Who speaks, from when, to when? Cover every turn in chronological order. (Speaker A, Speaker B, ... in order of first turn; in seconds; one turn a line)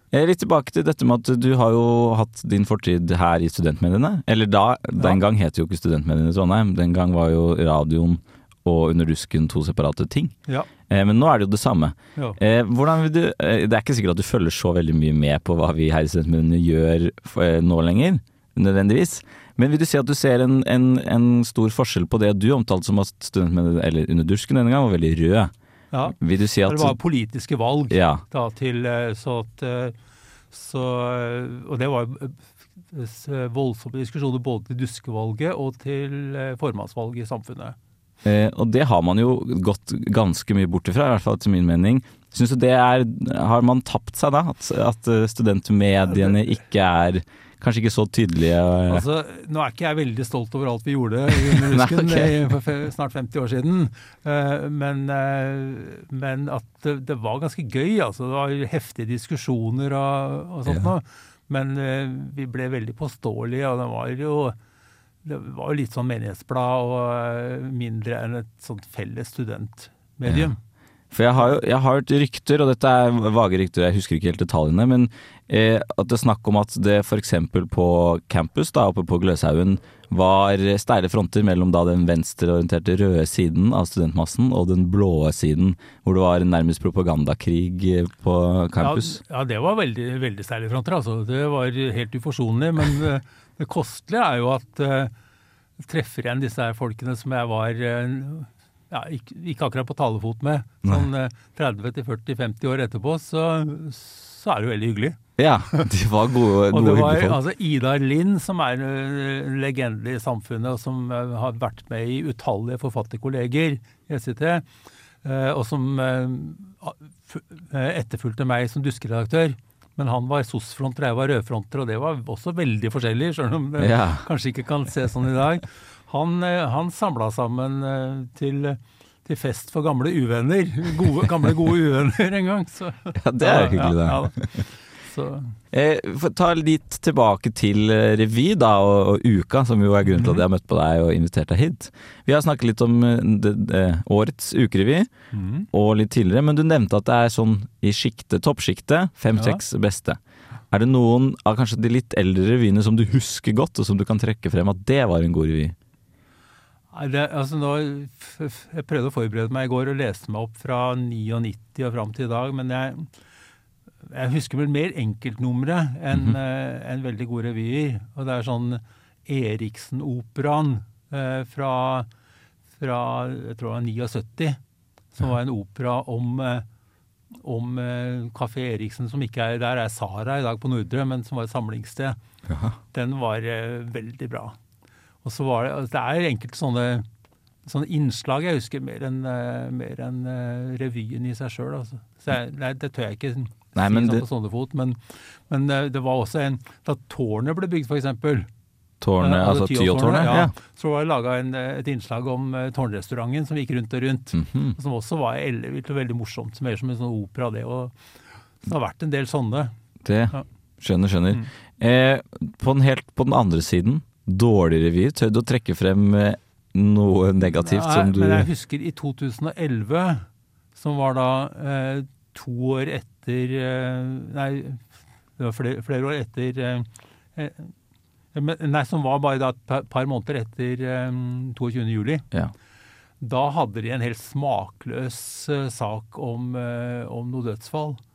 Speaker A: 0.1-25.5
Speaker B: 25.9-29.9
Speaker A: 26.2-27.1
Speaker A: 27.9-28.2
Speaker B: 30.5-32.4
Speaker B: 32.9-37.8
Speaker A: 38.2-49.1
Speaker B: 46.1-46.4
Speaker B: 48.9-64.6
Speaker A: 51.3-52.5
Speaker A: 60.6-60.9
Speaker B: 65.2-70.6
Speaker A: 70.3-70.5
Speaker A: 71.1-89.2
Speaker B: 88.8-95.1
Speaker B: 95.8-105.2
Speaker A: 105.4-107.4
Speaker B: 106.7-114.7
Speaker B: 115.2-135.5
Speaker A: 123.8-124.3
Speaker A: 133.2-134.6
Speaker A: 135.7-145.1
Speaker B: 140.1-140.4
Speaker B: 145.3-145.7
Speaker A: 145.7-150.2
Speaker B: 149.3-149.6
Speaker A: 150.7-155.7
Speaker B: 156.9-163.1
Speaker B: 164.1-172.1
Speaker A: 166.1-166.4
Speaker B: 172.8-174.6
Speaker B: 175.2-176.7
Speaker B: 177.4-182.2
Speaker A: 182.5-182.8
Speaker B: 182.9-184.6
Speaker B: 185.2-187.1
Speaker B: 187.7-198.5
Speaker A: 193.8-194.2
Speaker A: 199.0-200.5
Speaker B: 199.2-207.9
Speaker A: 204.3-204.8
Speaker B: 208.6-209.7
Speaker A: 210.1-218.5
Speaker B: 217.4-220.2
Speaker B: 220.8-224.8
Speaker B: 225.4-227.7
Speaker B: 228.3-232.2
Speaker B: 233.2-238.0